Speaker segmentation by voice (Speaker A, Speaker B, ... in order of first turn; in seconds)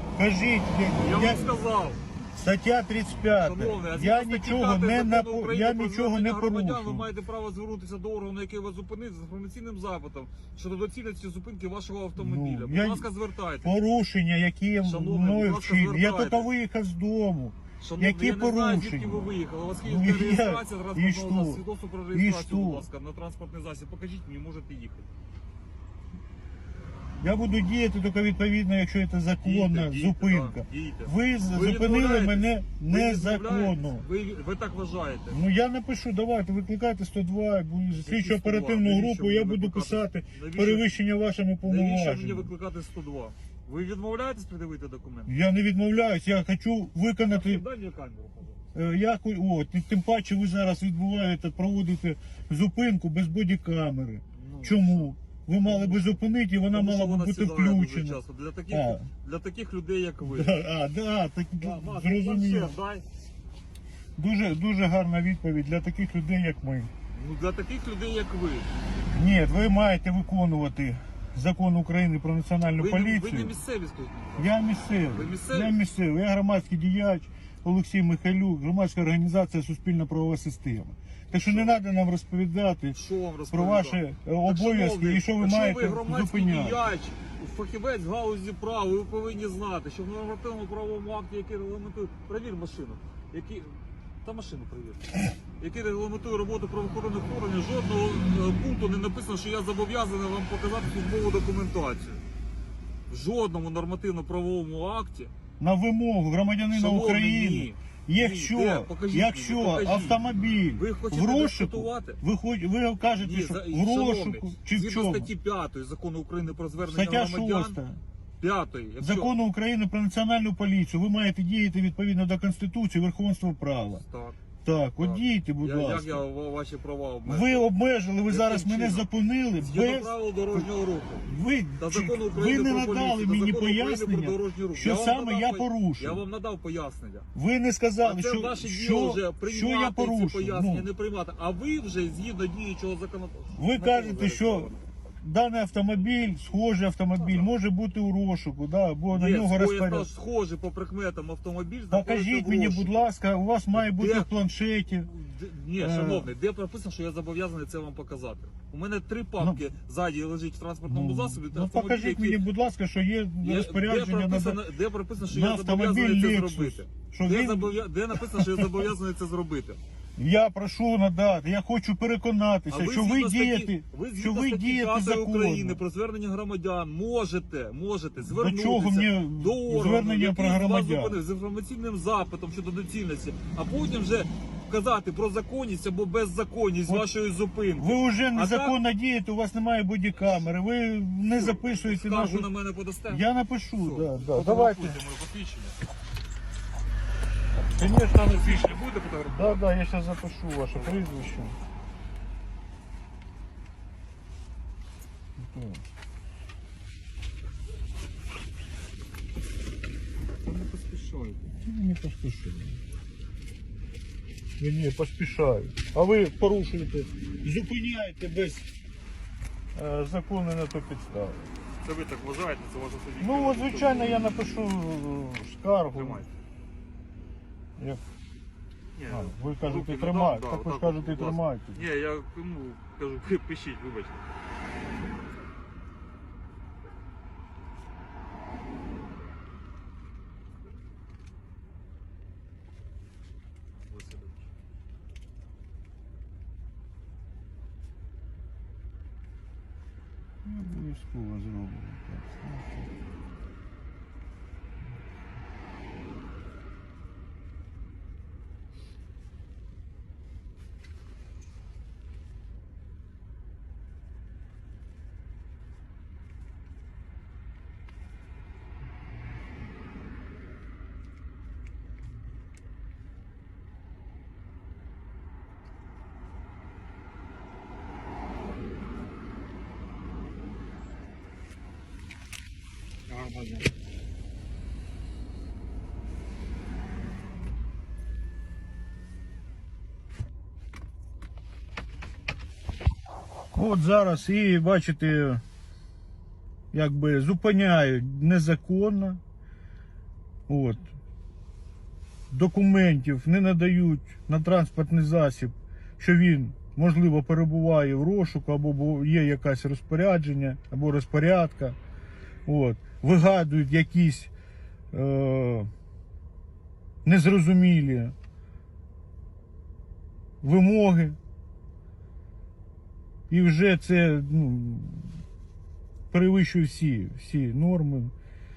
Speaker A: 0.1-1.5, 2.4-7.1, 12.2-13.1, 13.6-19.3, 19.8-22.9, 27.2-34.0, 35.3-42.5, 45.3-47.6, 48.7-59.1, 60.2-62.8, 64.2-66.9, 69.1-73.5, 74.4-83.0, 83.5-86.8, 105.6-115.3, 116.8-118.0, 119.0-124.0, 124.6-126.2, 127.2-130.7, 131.2-136.2, 137.3-140.9, 143.6-150.1, 151.9-155.1, 155.8-156.3, 159.4-159.6, 160.9-164.6, 165.2-168.9, 170.2-175.8, 178.3-181.2, 187.8-192.5, 193.1-195.0, 197.6-198.8, 199.3-201.6, 205.4-205.8, 211.6-212.8, 214.6-218.7, 219.7-221.5, 223.2-226.2, 227.8-228.0, 229.1-231.8, 250.4-252.9, 293.5-295.4, 296.7-299.2, 300.5-300.9, 302.3-311.8, 312.4-314.3, 314.9-315.7, 317.0-318.1, 320.4-321.2, 323.3-325.2, 326.1-328.1
Speaker B: 1.0-2.0, 3.3-13.7, 14.8-16.5, 17.8-25.1, 29.4-35.4, 37.9-40.9, 41.6-45.3, 47.3-48.6, 54.3-55.1, 55.6-56.2, 56.7-60.6, 61.6-63.0, 67.1-68.7, 72.8-75.7, 81.3-81.8, 82.9-102.2, 103.1-105.3, 106.7-110.2, 110.7-112.2, 113.2-117.8, 118.4-119.3, 124.0-124.4, 125.0-127.7, 128.2-129.1, 129.6-131.3, 131.8-137.3, 138.0-144.8, 147.2-147.5, 149.1-153.0, 153.7-154.3, 155.0-162.4, 163.4-169.8, 172.7-188.7, 190.2-190.5, 191.3-193.2, 193.8-195.8, 198.2-199.6, 200.7-201.1, 210.4-211.4, 221.8-224.2, 225.9-226.3, 228.9-234.2, 243.8-244.4, 283.1-283.7